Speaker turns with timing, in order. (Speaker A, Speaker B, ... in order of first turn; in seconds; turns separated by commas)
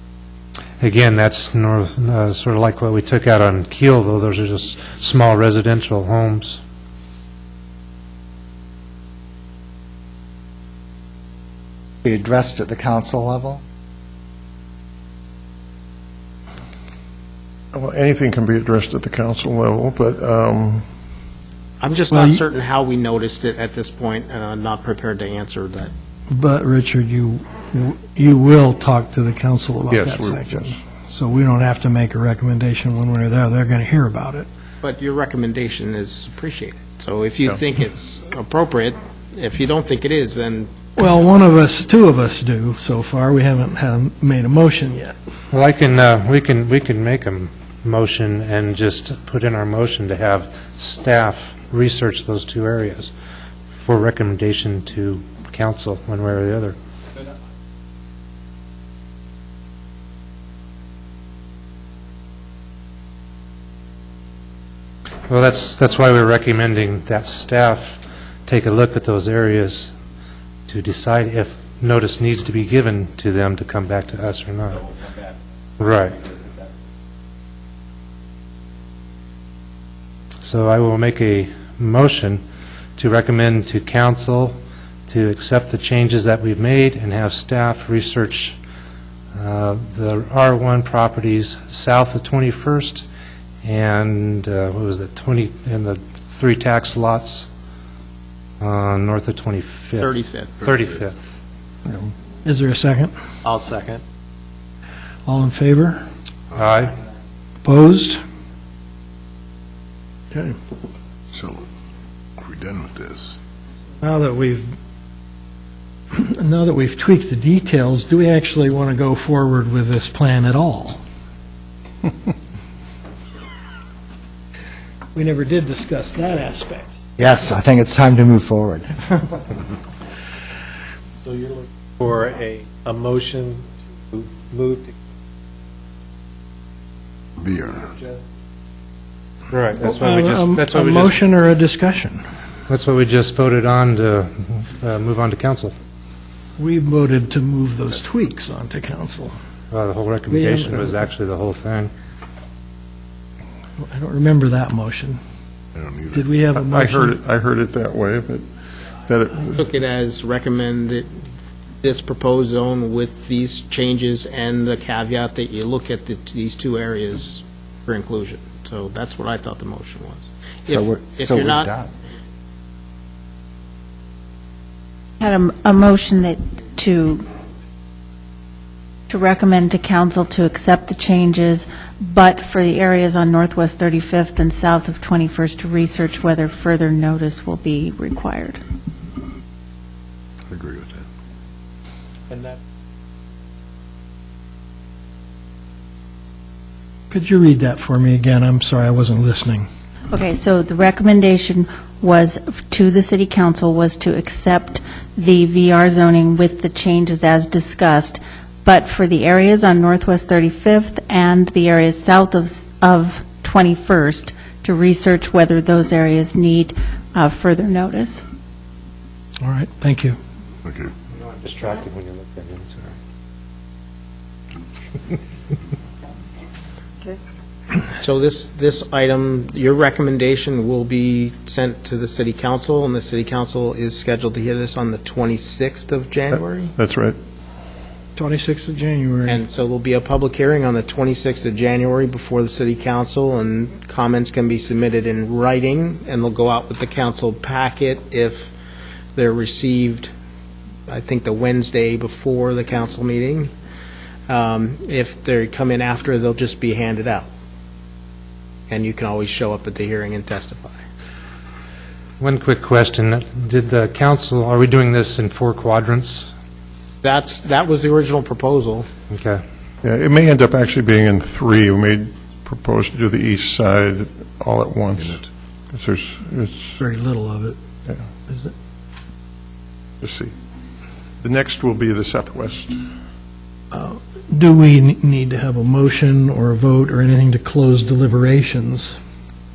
Speaker A: 0.8-6.6, Speaker B: 12.0-13.6, Speaker C: 17.7-20.9, Speaker D: 21.8-25.9, Speaker E: 22.1-22.4, Speaker E: 26.3-34.5, Speaker C: 29.9-30.8, Speaker D: 34.8-40.7, Speaker E: 41.0-45.1, Speaker A: 45.5-53.1, Speaker A: 53.8-56.8, Speaker A: 65.3-69.9, Speaker A: 70.7-74.9, Speaker A: 75.8-76.2, Speaker A: 80.4-82.4, Speaker A: 83.0-88.6, Speaker A: 89.3-93.1, Speaker A: 93.6-97.5, Speaker A: 98.6-101.2, Speaker D: 100.0-100.5, Speaker E: 101.9-103.1, Speaker F: 103.4-104.0, Speaker E: 105.3-106.1, Speaker A: 106.5-107.0, Speaker E: 107.6-108.2, Speaker G: 111.3-111.6, Speaker G: 112.4-113.3, Speaker E: 114.0-114.7, Speaker E: 116.1-121.0, Speaker E: 125.2-127.0, Speaker B: 127.2-129.0, Speaker F: 131.2-134.9, Speaker G: 137.4-137.9, Speaker F: 137.7-138.2, Speaker A: 139.5-141.2, Speaker E: 139.8-142.3, Speaker A: 142.7-145.7, Speaker E: 146.6-149.3, Speaker A: 149.7-151.9, Speaker E: 150.3-151.1, Speaker E: 153.8-155.2, Speaker G: 155.8-156.2, Speaker E: 156.1-157.2, Speaker C: 156.6-158.5, Speaker C: 159.0-159.6, Speaker D: 159.6-161.2, Speaker D: 161.8-171.7, Speaker B: 170.7-171.9, Speaker H: 175.2-177.2, Speaker H: 179.1-188.6, Speaker G: 190.5-191.0, Speaker F: 192.3-192.6, Speaker E: 197.1-199.7, Speaker H: 200.1-218.2, Speaker E: 219.4-220.2, Speaker A: 221.1-222.9, Speaker D: 228.0-236.7, Speaker C: 236.3-237.2, Speaker E: 238.2-239.4, Speaker D: 239.3-248.5, Speaker D: 249.2-250.1, Speaker D: 250.9-253.5, Speaker D: 254.3-257.3, Speaker D: 258.7-260.8, Speaker A: 262.2-266.3, Speaker D: 267.0-268.9, Speaker A: 269.1-269.4, Speaker C: 269.8-275.2, Speaker C: 275.7-276.8, Speaker E: 276.8-277.6, Speaker E: 278.3-278.5, Speaker C: 280.0-280.3, Speaker C: 281.2-282.9, Speaker E: 283.7-289.0